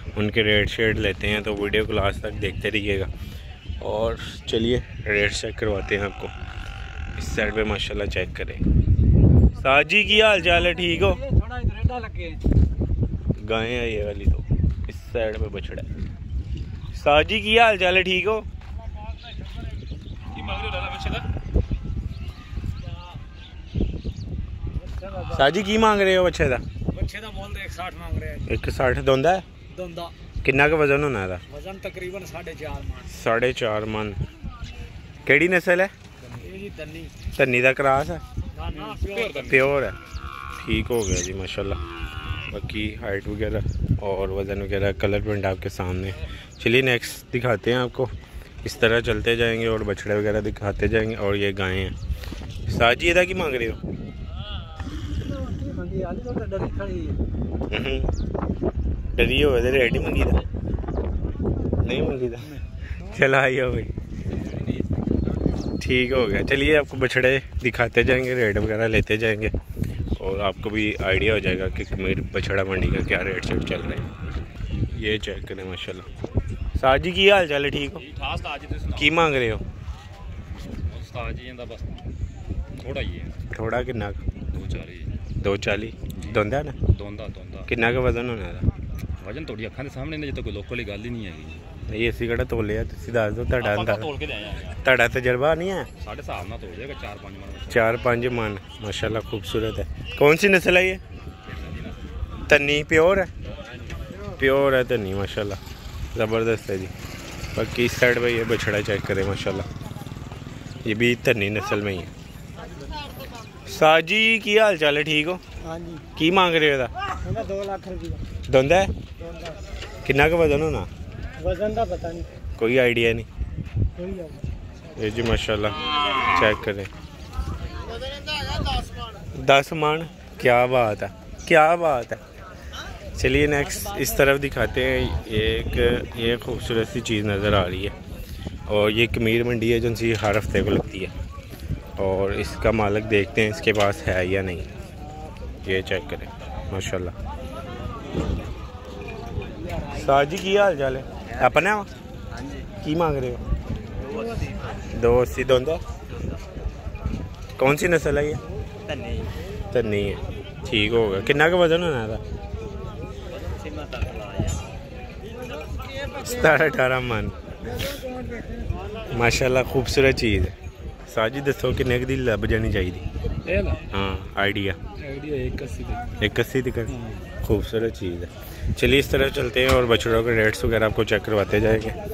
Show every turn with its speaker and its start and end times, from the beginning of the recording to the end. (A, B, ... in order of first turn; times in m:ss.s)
0:00.1-0:03.1 A
0:03.8-0:06.3 A
0:07.2-0:08.6 A
0:09.6-0:11.2 A
0:11.2-0:12.4 B
0:13.4-0:15.9 A
0:16.9-0:18.5 A
0:20.3-0:21.2 C
0:25.0-0:25.4 B
0:25.2-0:26.6 A
0:26.9-0:28.4 B
0:28.4-0:29.4 A
0:29.7-0:30.1 B
0:30.4-0:31.4 A
0:31.5-0:33.0 B
0:33.0-0:34.2 A
0:35.2-0:35.9 A
0:36.4-0:37.1 B
0:37.3-0:38.2 A
0:38.6-0:39.6 C
0:38.9-0:39.3 B
0:39.4-0:40.0 A
0:40.6-0:41.8 A
0:42.5-0:51.9 A
0:52.6-0:53.8 A
0:55.2-0:57.2 B
0:57.7-0:58.1 A
0:59.1-1:00.4 A
1:01.8-1:03.9 A
1:05.8-1:09.5 A
1:10.1-1:14.1 A
1:14.9-1:16.1 A
1:16.8-1:18.0 A
1:18.0-1:19.1 C
1:18.9-1:19.6 A
1:20.8-1:22.1 C
1:22.7-1:23.4 C
1:23.5-1:24.2 A
1:24.5-1:25.2 C
1:25.4-1:26.8 A
1:26.9-1:27.7 C
1:27.7-1:28.6 A
1:29.2-1:31.7 C
1:31.9-1:34.1 A
1:33.6-1:34.8 C
1:34.8-1:35.9 A
1:36.0-1:37.9 C
1:37.7-1:41.0 A
1:41.5-1:42.0 C
1:42.4-1:43.3 A
1:44.3-1:45.6 A
1:46.1-1:46.9 A
1:47.5-1:49.7 A
1:50.8-1:52.1 A
1:53.6-1:55.4 A
1:55.6-1:56.1 B
1:56.2-1:56.9 A
1:57.2-1:58.2 B
1:58.5-1:58.9 A
2:00.0-2:00.9 A
2:01.4-2:02.3 B
2:02.6-2:03.3 A
2:04.0-2:04.4 B
2:04.9-2:06.9 A
2:09.3-2:12.2 A
2:13.1-2:17.9 A
2:18.7-2:21.1 A
2:22.0-2:24.7 A
2:25.6-2:27.1 A
2:29.9-2:31.9 A
2:32.8-2:33.4 A
2:34.2-2:34.6 B
2:34.8-2:35.8 A
2:37.6-2:38.4 A
2:38.9-2:39.2 C
2:39.7-2:42.2 A
2:43.6-2:44.6 C
2:46.2-2:47.9 A
2:49.1-2:53.0 A
2:53.4-2:53.8 C
2:53.9-2:54.8 A
2:55.0-2:56.0 C
2:56.2-3:02.0 A